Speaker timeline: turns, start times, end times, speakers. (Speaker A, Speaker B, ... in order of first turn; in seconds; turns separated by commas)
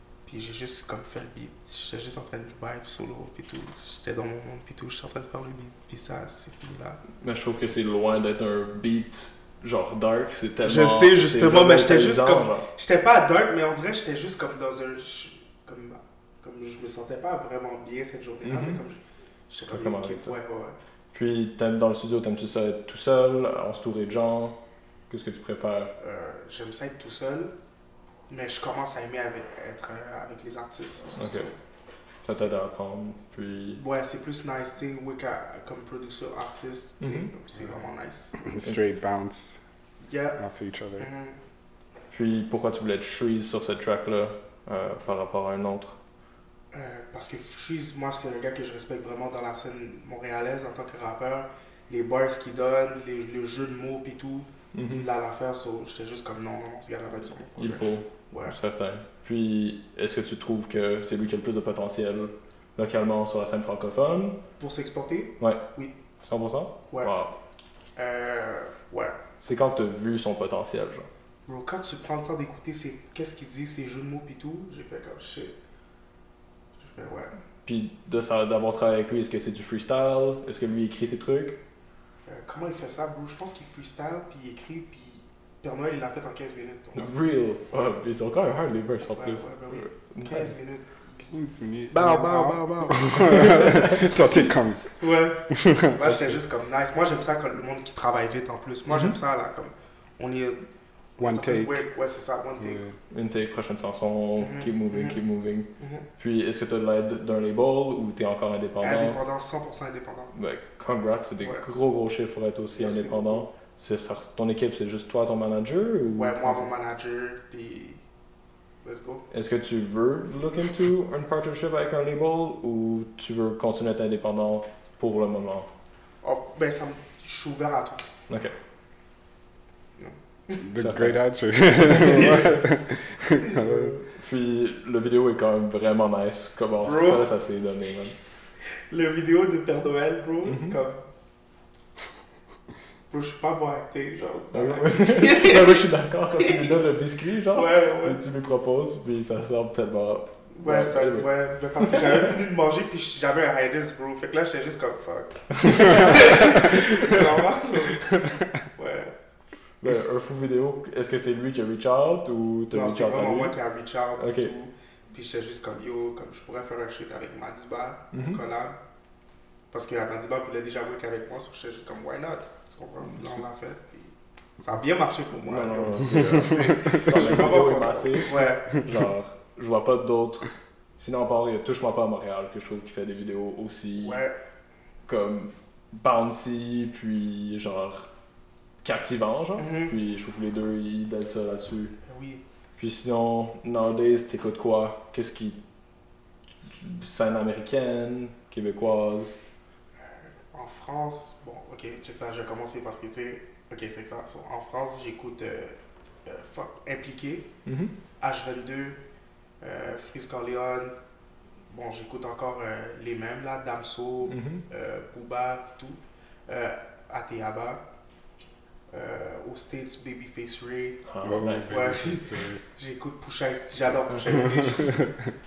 Speaker A: 0.2-7.0, Speaker B: 7.2-12.7, Speaker A: 10.6-20.8, Speaker B: 18.4-18.8, Speaker B: 19.7-20.3, Speaker B: 21.1-24.6, Speaker B: 25.1-25.9, Speaker A: 26.0-27.5, Speaker A: 28.3-31.6, Speaker B: 31.1-31.5, Speaker B: 32.2-33.8, Speaker A: 33.8-38.3, Speaker B: 37.0-37.3, Speaker C: 38.4-39.6, Speaker A: 40.0-40.4, Speaker C: 40.4-41.1, Speaker A: 41.0-41.4, Speaker B: 42.1-46.0, Speaker A: 46.7-58.5, Speaker B: 54.7-55.0, Speaker B: 57.6-64.4, Speaker A: 64.6-65.9, Speaker B: 66.2-67.3, Speaker A: 68.0-69.2, Speaker B: 69.4-71.1, Speaker A: 71.5-75.5, Speaker A: 76.8-77.3, Speaker B: 77.6-81.6, Speaker A: 82.2-87.2, Speaker B: 87.0-90.5, Speaker A: 89.1-91.2, Speaker C: 91.3-94.9, Speaker A: 91.9-94.0, Speaker B: 93.6-93.9, Speaker A: 95.0-100.6, Speaker C: 95.5-96.1, Speaker B: 98.9-99.1, Speaker A: 101.2-102.9, Speaker C: 101.2-101.8, Speaker C: 102.6-102.9, Speaker B: 103.1-109.2, Speaker A: 104.4-105.2, Speaker A: 105.8-106.1, Speaker A: 108.8-110.3, Speaker B: 110.3-116.7, Speaker A: 112.8-113.4, Speaker A: 116.1-118.0, Speaker A: 118.8-119.2, Speaker B: 119.3-125.7, Speaker A: 126.2-128.1, Speaker B: 128.3-128.5, Speaker A: 130.0-130.6, Speaker C: 130.6-133.9, Speaker B: 130.8-131.2, Speaker B: 131.8-132.4, Speaker A: 132.0-132.5, Speaker B: 133.5-138.2, Speaker A: 136.8-137.2, Speaker A: 138.9-141.0, Speaker B: 140.5-140.7, Speaker A: 143.1-146.8, Speaker B: 144.5-152.2, Speaker A: 147.5-148.2, Speaker A: 150.5-159.1, Speaker B: 155.6-156.5, Speaker B: 159.8-163.6, Speaker A: 162.7-168.8, Speaker B: 164.2-164.5, Speaker B: 168.1-168.4, Speaker A: 169.7-178.8, Speaker B: 173.0-173.4, Speaker B: 175.4-184.2, Speaker A: 184.0-184.3, Speaker B: 185.1-188.1, Speaker B: 188.8-191.9, Speaker A: 189.6-189.9, Speaker A: 192.1-192.4, Speaker B: 192.8-195.6, Speaker B: 196.7-199.4, Speaker A: 200.0-207.5, Speaker B: 207.7-207.9, Speaker A: 208.2-209.0, Speaker A: 209.6-210.9, Speaker A: 211.7-217.8, Speaker B: 214.2-214.6, Speaker A: 218.9-221.0, Speaker B: 221.0-221.9, Speaker C: 221.2-222.6, Speaker A: 221.7-225.2